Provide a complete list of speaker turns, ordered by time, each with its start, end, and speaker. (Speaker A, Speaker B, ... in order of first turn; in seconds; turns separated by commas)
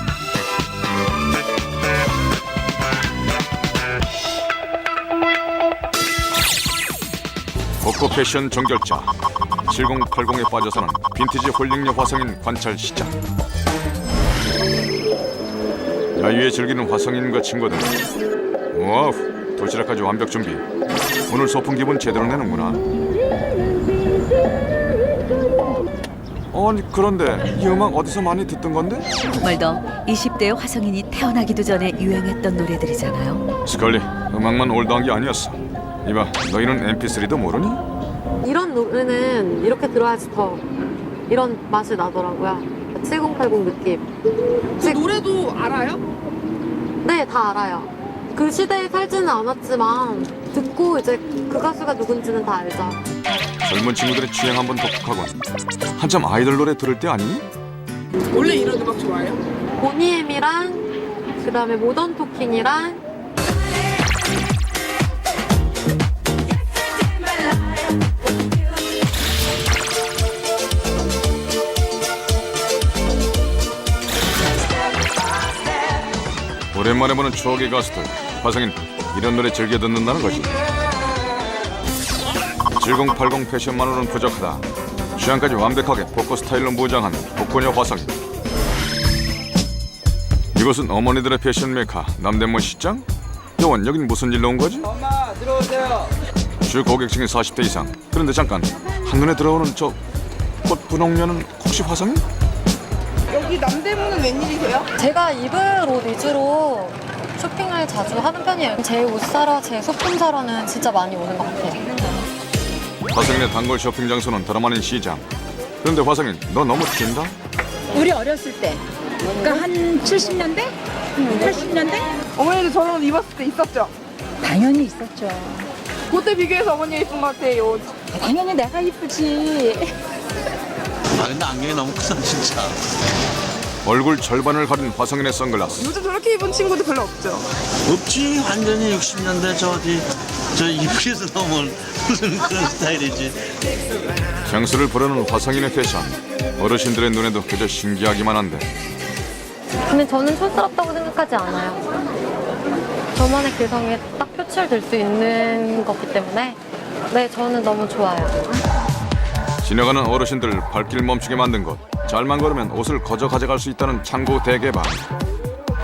Speaker A: 7.8-9.1, Speaker A: 9.7-13.2, Speaker A: 16.1-18.0, Speaker A: 18.7-20.6, Speaker A: 21.3-22.8, Speaker A: 26.5-29.1, Speaker B: 29.4-33.5, Speaker A: 33.7-37.8, Speaker C: 38.4-40.6, Speaker C: 41.3-44.1, Speaker D: 44.8-46.0, Speaker C: 44.8-45.0, Speaker C: 47.0-53.0, Speaker A: 53.6-55.4, Speaker A: 56.0-57.5, Speaker D: 58.3-59.4, Speaker C: 59.8-60.9, Speaker C: 61.4-63.0, Speaker A: 76.7-80.5, Speaker A: 82.8-88.1, Speaker A: 90.5-93.0, Speaker A: 93.6-94.9, Speaker A: 96.6-100.0, Speaker A: 100.7-102.2, Speaker D: 103.3-104.9, Speaker C: 105.0-111.8, Speaker A: 113.1-115.3, Speaker A: 115.8-117.3, Speaker E: 117.9-120.7, Speaker E: 121.3-122.1, Speaker D: 122.3-123.9, Speaker E: 124.4-125.7, Speaker D: 126.1-128.0, Speaker E: 128.2-129.9, Speaker F: 131.1-132.8, Speaker A: 133.8-135.9, Speaker D: 135.8-137.5, Speaker F: 137.8-143.4, Speaker A: 144.4-148.7, Speaker C: 149.9-151.8, Speaker C: 153.1-158.4, Speaker A: 159.6-165.1